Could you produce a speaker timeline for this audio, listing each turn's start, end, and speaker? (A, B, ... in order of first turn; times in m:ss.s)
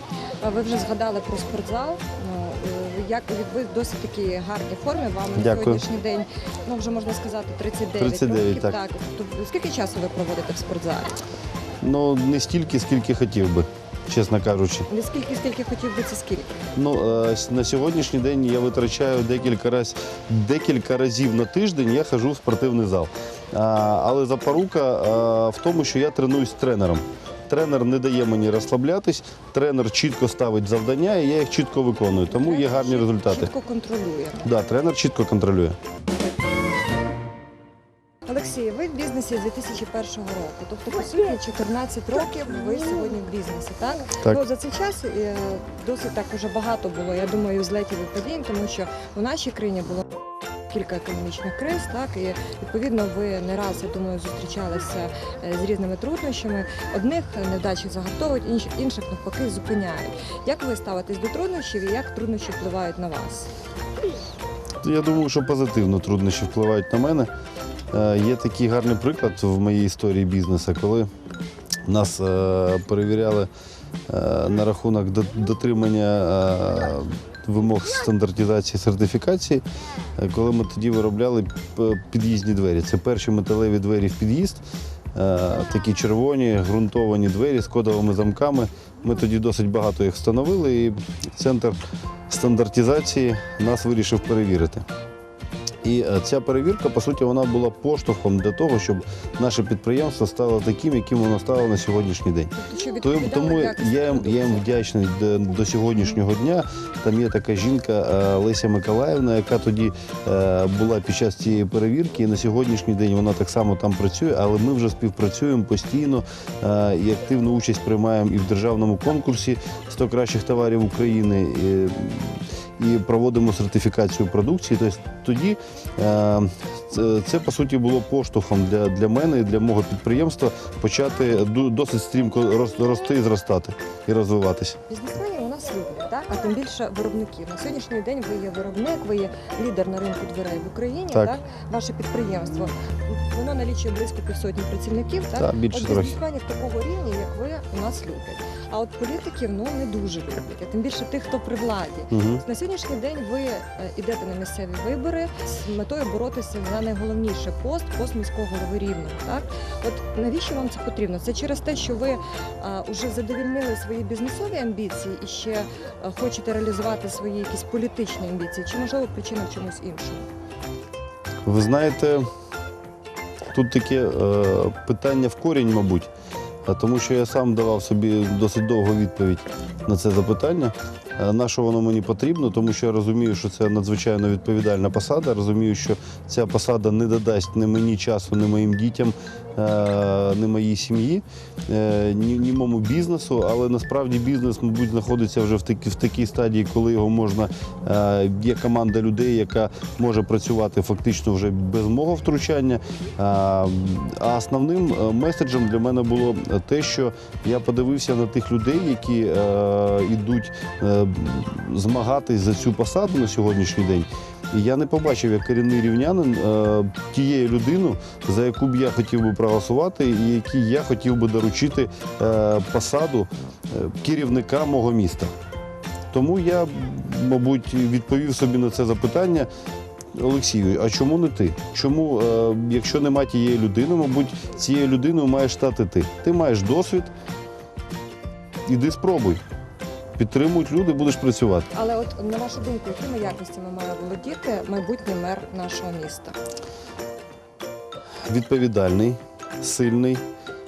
0:00.4-0:11.2 A
0:05.3-0:05.8 B
0:08.0-0:08.8 B
0:11.8-0:14.9 B
0:14.9-0:16.7 A
0:16.8-0:33.5 B
0:32.3-0:34.5 A
0:34.4-0:35.8 B
0:38.2-0:50.0 A
0:50.7-1:03.5 A
1:04.8-1:07.3 B
1:07.9-1:11.1 B
1:11.8-1:13.5 B
1:14.1-1:24.6 B
1:25.1-1:34.8 B
1:35.8-2:14.8 B
1:42.6-1:44.7 A
2:14.9-2:50.3 A
2:21.1-2:21.4 B
2:25.4-2:26.2 B
2:32.1-2:32.4 B
2:51.4-2:52.3 B
2:53.5-2:56.1 B
2:56.6-3:45.3 B
3:46.1-3:49.5 B
3:50.1-3:57.1 B
3:58.6-3:59.4 B
4:00.2-4:01.7 B
4:01.7-4:06.4 A
4:08.3-4:10.2 B